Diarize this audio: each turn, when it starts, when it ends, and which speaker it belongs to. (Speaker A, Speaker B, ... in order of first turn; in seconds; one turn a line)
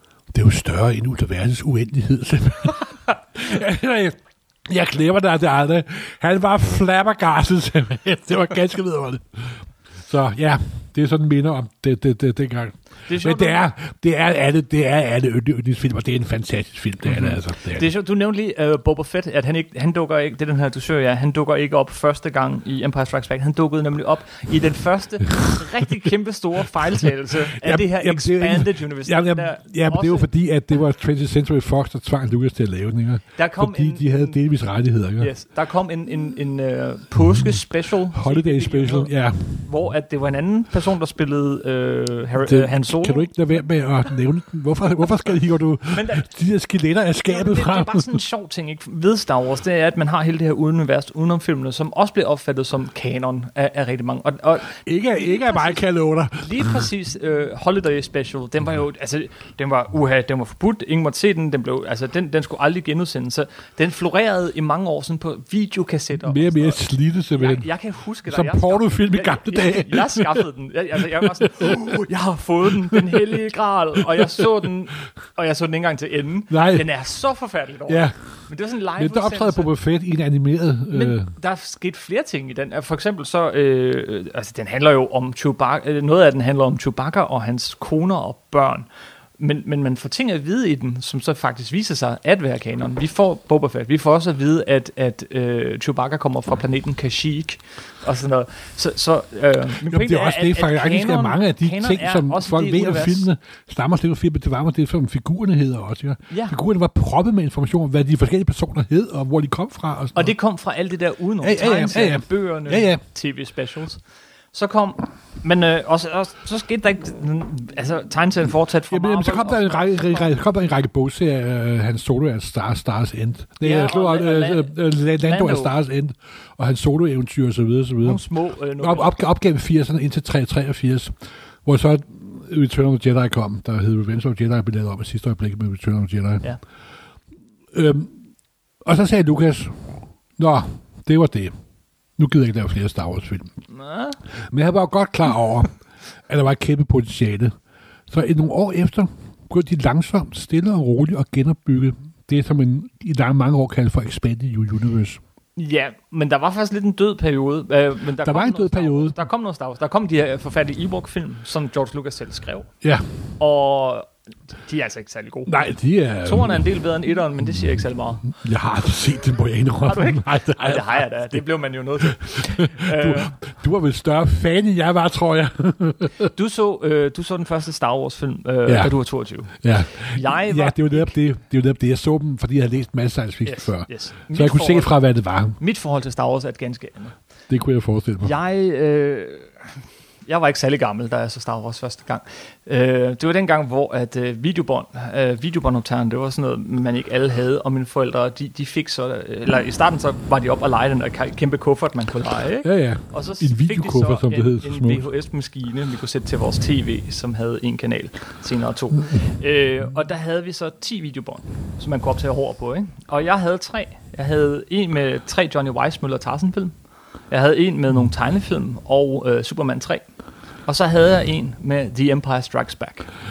Speaker A: 0.3-17.9
Speaker B: 13.1-13.6
Speaker B: 17.1-30.3
Speaker A: 27.5-35.3
Speaker B: 33.4-34.4
Speaker B: 35.2-43.3
Speaker A: 38.1-39.7
Speaker A: 42.4-48.2
Speaker B: 45.9-46.3
Speaker B: 47.2-55.8
Speaker A: 54.8-56.9
Speaker B: 56.3-66.8
Speaker A: 66.2-67.7
Speaker B: 67.3-79.7
Speaker A: 68.3-70.4
Speaker A: 71.6-72.0
Speaker A: 76.5-76.9
Speaker A: 77.9-81.3
Speaker B: 80.9-88.8
Speaker B: 89.4-103.3
Speaker A: 99.8-110.3
Speaker B: 106.3-106.6
Speaker B: 110.1-120.3
Speaker A: 111.4-113.0
Speaker A: 118.9-128.2
Speaker B: 123.6-125.7
Speaker B: 128.0-129.1
Speaker A: 128.8-136.5
Speaker A: 137.7-138.2
Speaker A: 138.8-141.5
Speaker A: 142.2-143.5
Speaker B: 143.7-144.2
Speaker A: 144.3-147.5
Speaker A: 148.1-155.2
Speaker B: 155.6-162.7
Speaker A: 158.2-159.2
Speaker A: 162.8-163.2
Speaker B: 163.4-165.5
Speaker A: 165.4-166.7
Speaker B: 166.2-168.3
Speaker A: 168.2-171.4
Speaker B: 169.8-173.3
Speaker A: 172.0-176.3
Speaker B: 176.3-181.1
Speaker A: 178.7-179.0
Speaker A: 179.5-185.6
Speaker B: 183.4-184.9
Speaker B: 185.6-187.2
Speaker A: 187.5-188.3
Speaker B: 188.2-216.7
Speaker A: 202.6-205.1
Speaker B: 217.3-220.1
Speaker B: 220.6-223.1